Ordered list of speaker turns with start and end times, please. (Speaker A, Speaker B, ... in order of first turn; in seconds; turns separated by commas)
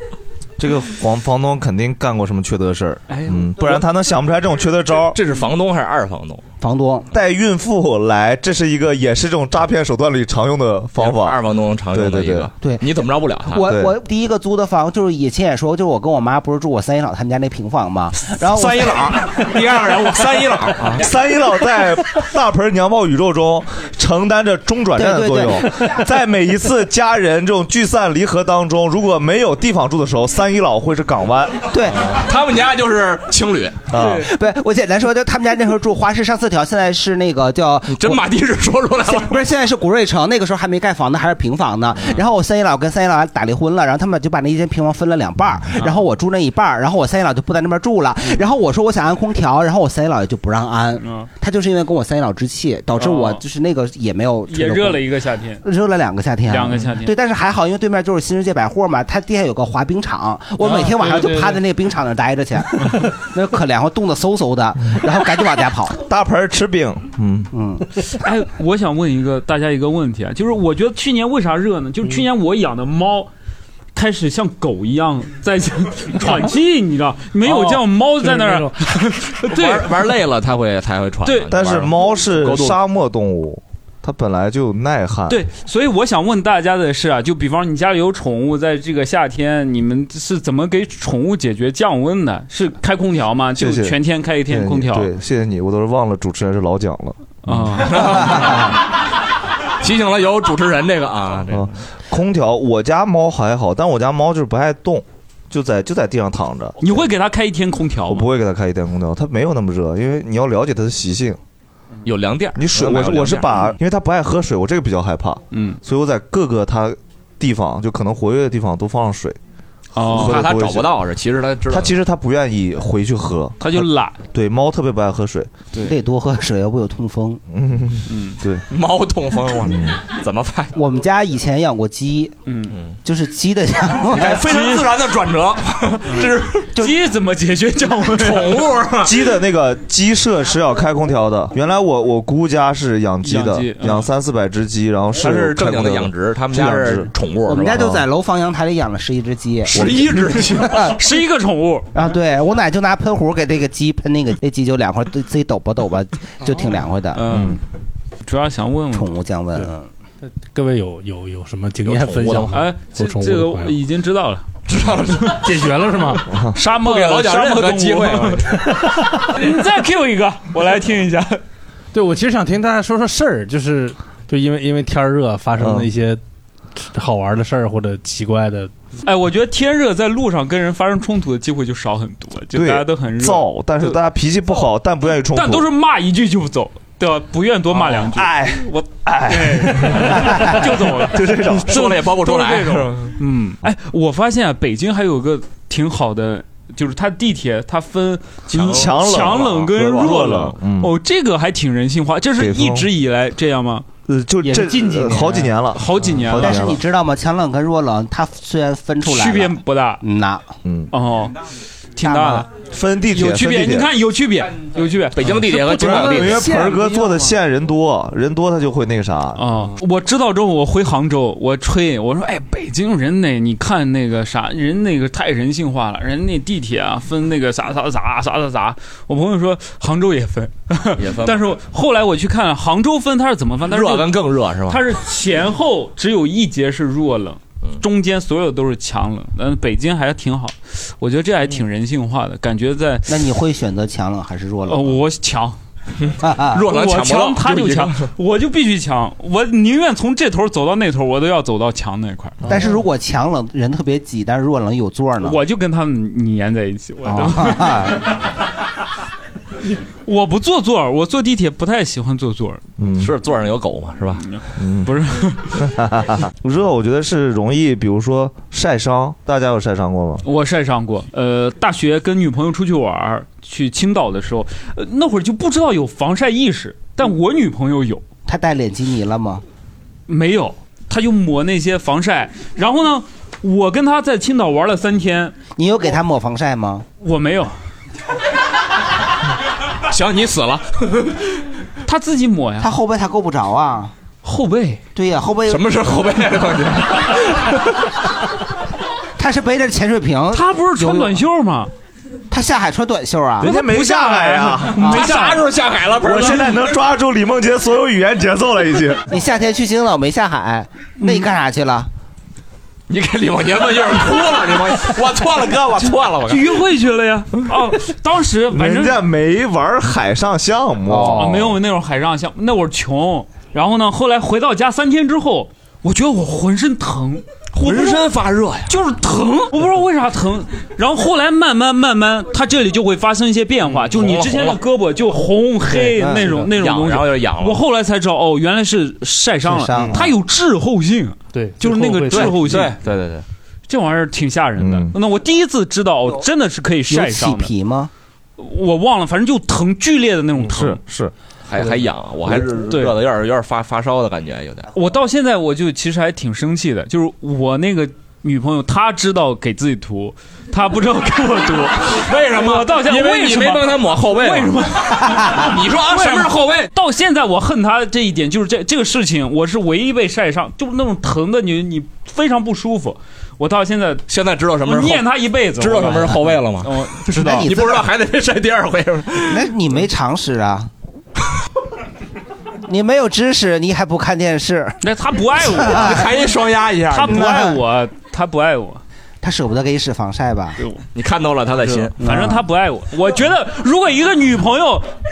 Speaker A: 0.6-5.2, Speaker B: 3.1-3.8, Speaker C: 5.1-6.4, Speaker D: 6.6-7.1, Speaker A: 7.1-11.4, Speaker C: 11.0-13.6, Speaker A: 11.9-12.5, Speaker D: 13.4-19.3, Speaker A: 13.6-13.9, Speaker C: 19.4-21.1, Speaker A: 20.3-31.7, Speaker D: 24.9-25.7, Speaker D: 31.7-32.1, Speaker C: 32.1-33.8, Speaker A: 33.9-34.3, Speaker D: 34.0-38.2, Speaker C: 37.9-39.4, Speaker D: 39.0-55.0, Speaker B: 51.0-51.3, Speaker B: 53.0-53.4, Speaker B: 54.5-55.6, Speaker D: 55.6-66.0, Speaker B: 56.5-57.1, Speaker E: 60.6-61.6, Speaker A: 66.0-67.5, Speaker D: 67.5-67.9, Speaker B: 68.1-73.3, Speaker B: 73.9-79.9, Speaker E: 77.4-78.7, Speaker C: 79.4-82.8, Speaker A: 81.5-85.4, Speaker B: 85.3-95.1, Speaker A: 93.5-98.5, Speaker B: 97.5-97.9, Speaker C: 97.8-98.8, Speaker D: 98.0-98.7, Speaker C: 99.8-101.7, Speaker A: 101.5-106.8, Speaker B: 106.8-108.3, Speaker A: 108.1-111.4, Speaker C: 112.0-113.7, Speaker A: 112.5-119.4, Speaker B: 115.5-115.8, Speaker B: 120.0-120.3, Speaker C: 120.0-121.9, Speaker A: 120.1-120.9, Speaker A: 121.7-125.7, Speaker B: 123.6-124.2, Speaker D: 125.8-127.4, Speaker A: 127.5-128.6, Speaker B: 128.1-128.4, Speaker C: 128.7-130.7, Speaker A: 129.7-129.9, Speaker D: 130.7-132.3, Speaker B: 132.5-132.7, Speaker C: 132.7-133.0, Speaker D: 133.0-134.4, Speaker C: 134.1-136.7, Speaker B: 134.4-134.8, Speaker B: 136.8-138.6, Speaker C: 138.1-139.2, Speaker A: 139.0-147.1, Speaker B: 143.2-144.0, Speaker C: 145.2-148.0, Speaker D: 147.4-151.0, Speaker C: 149.7-150.9, Speaker B: 151.0-151.9, Speaker D: 151.9-157.3, Speaker B: 157.1-157.6, Speaker A: 157.3-157.6, Speaker B: 158.2-159.1, Speaker D: 158.9-159.9, Speaker E: 160.2-163.8, Speaker C: 161.8-162.6, Speaker B: 162.5-164.4, Speaker C: 164.7-165.6, Speaker E: 165.4-166.3, Speaker B: 166.5-168.4, Speaker C: 166.8-168.7, Speaker E: 168.6-169.0, Speaker B: 169.2-171.4, Speaker E: 171.9-176.2, Speaker A: 175.6-175.9, Speaker E: 176.8-178.7, Speaker B: 179.0-184.0, Speaker A: 182.5-185.6, Speaker B: 185.3-203.9, Speaker A: 187.7-191.7, Speaker C: 191.1-193.2, Speaker A: 198.5-200.9, Speaker A: 202.4-202.9, Speaker A: 204.1-206.8, Speaker E: 204.5-205.5, Speaker B: 205.7-206.6, Speaker D: 206.3-210.5, Speaker B: 209.0-210.0, Speaker A: 210.6-210.9, Speaker B: 210.9-211.3, Speaker B: 212.0-212.5, Speaker D: 212.0-212.4, Speaker A: 212.6-213.9, Speaker B: 213.1-216.8, Speaker C: 215.1-216.6, Speaker A: 215.6-219.4, Speaker E: 216.6-217.0, Speaker B: 219.3-234.1, Speaker C: 231.0-231.5, Speaker C: 233.7-234.8, Speaker B: 234.7-243.1, Speaker D: 243.1-245.0, Speaker B: 244.7-245.6, Speaker C: 246.0-248.1, Speaker D: 246.2-246.6, Speaker B: 246.7-252.4, Speaker D: 252.4-255.4, Speaker B: 255.2-257.9, Speaker D: 257.0-258.0, Speaker B: 260.1-262.6, Speaker A: 262.8-263.1, Speaker C: 262.9-264.2, Speaker B: 264.2-265.5, Speaker A: 264.6-264.9, Speaker A: 265.5-270.2, Speaker B: 270.2-278.0, Speaker D: 278.2-279.4, Speaker B: 280.1-285.3, Speaker D: 285.5-286.9, Speaker B: 287.0-287.5, Speaker C: 289.9-291.2, Speaker B: 291.8-292.7, Speaker D: 292.6-293.9, Speaker B: 294.2-294.8, Speaker D: 294.9-295.6, Speaker C: 295.5-297.3, Speaker D: 299.2-301.2, Speaker B: 300.3-301.7, Speaker D: 302.3-303.5, Speaker A: 303.4-304.9, Speaker B: 303.4-305.4, Speaker C: 304.7-306.6, Speaker A: 306.0-309.0, Speaker D: 309.1-311.9, Speaker B: 311.0-311.3, Speaker C: 312.9-316.6, Speaker B: 316.3-319.0, Speaker A: 318.5-321.6, Speaker D: 320.9-321.4, Speaker B: 321.1-328.0, Speaker C: 327.5-328.8, Speaker B: 328.7-342.7, Speaker C: 333.6-334.6, Speaker E: 335.7-336.4, Speaker C: 336.2-337.6, Speaker D: 339.5-340.0, Speaker E: 341.3-342.6, Speaker C: 342.1-343.2, Speaker B: 343.7-347.5, Speaker A: 344.6-344.9, Speaker D: 346.9-347.9, Speaker B: 348.4-350.8, Speaker A: 350.4-351.1, Speaker C: 351.4-354.7, Speaker A: 352.3-352.8, Speaker B: 354.7-374.0, Speaker C: 361.8-366.7, Speaker C: 374.1-379.5, Speaker B: 374.6-377.4, Speaker D: 377.1-377.9, Speaker D: 379.2-380.7, Speaker D: 382.6-384.8, Speaker B: 384.8-385.9, Speaker D: 385.4-386.1, Speaker C: 385.7-387.2, Speaker B: 386.9-388.8, Speaker D: 387.0-387.6, Speaker D: 389.2-390.6, Speaker C: 390.9-392.0, Speaker D: 392.0-392.4, Speaker B: 392.0-394.9